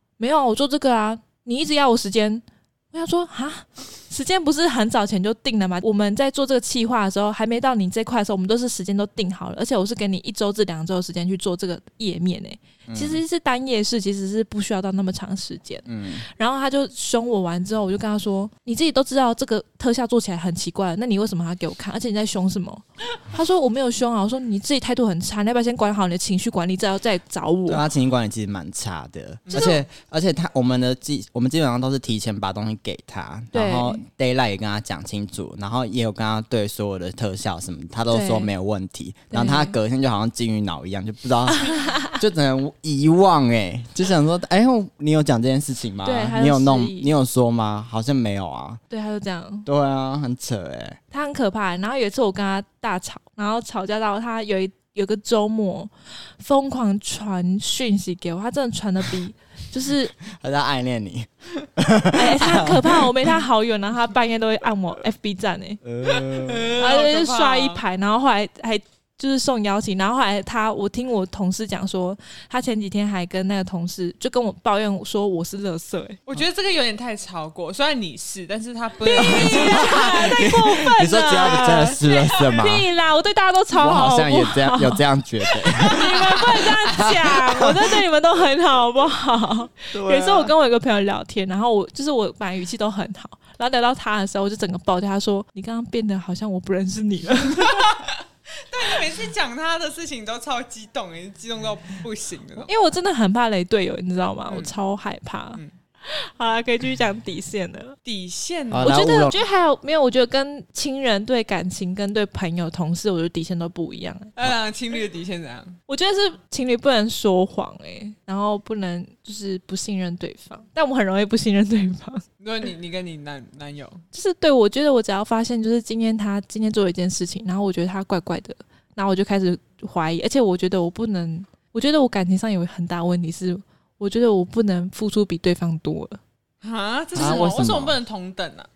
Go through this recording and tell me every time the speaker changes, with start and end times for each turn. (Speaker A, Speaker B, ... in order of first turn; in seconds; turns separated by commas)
Speaker A: 0.2-27.8, Speaker B: 12.9-13.2, Speaker B: 15.9-16.2, Speaker B: 27.7-48.8, Speaker C: 29.5-29.8, Speaker A: 33.5-34.0, Speaker A: 38.1-38.5, Speaker A: 39.3-39.8, Speaker A: 41.7-42.1, Speaker A: 46.0-47.1, Speaker A: 48.9-49.7, Speaker B: 49.6-51.0, Speaker A: 51.1-60.1, Speaker B: 60.3-63.2, Speaker A: 62.1-76.2, Speaker B: 65.8-66.8, Speaker C: 66.2-67.8, Speaker C: 76.3-80.5, Speaker A: 79.0-97.9, Speaker B: 79.2-82.9, Speaker C: 81.4-82.2, Speaker B: 83.7-87.9, Speaker C: 89.9-90.5, Speaker C: 97.6-102.7, Speaker A: 102.7-108.0, Speaker C: 104.5-104.7, Speaker C: 108.0-109.0, Speaker B: 108.7-109.3, Speaker A: 108.8-114.3, Speaker C: 114.3-115.8, Speaker A: 115.9-122.2, Speaker C: 122.4-124.0, Speaker A: 124.1-136.2, Speaker C: 136.6-138.7, Speaker B: 137.1-138.0, Speaker A: 137.2-137.5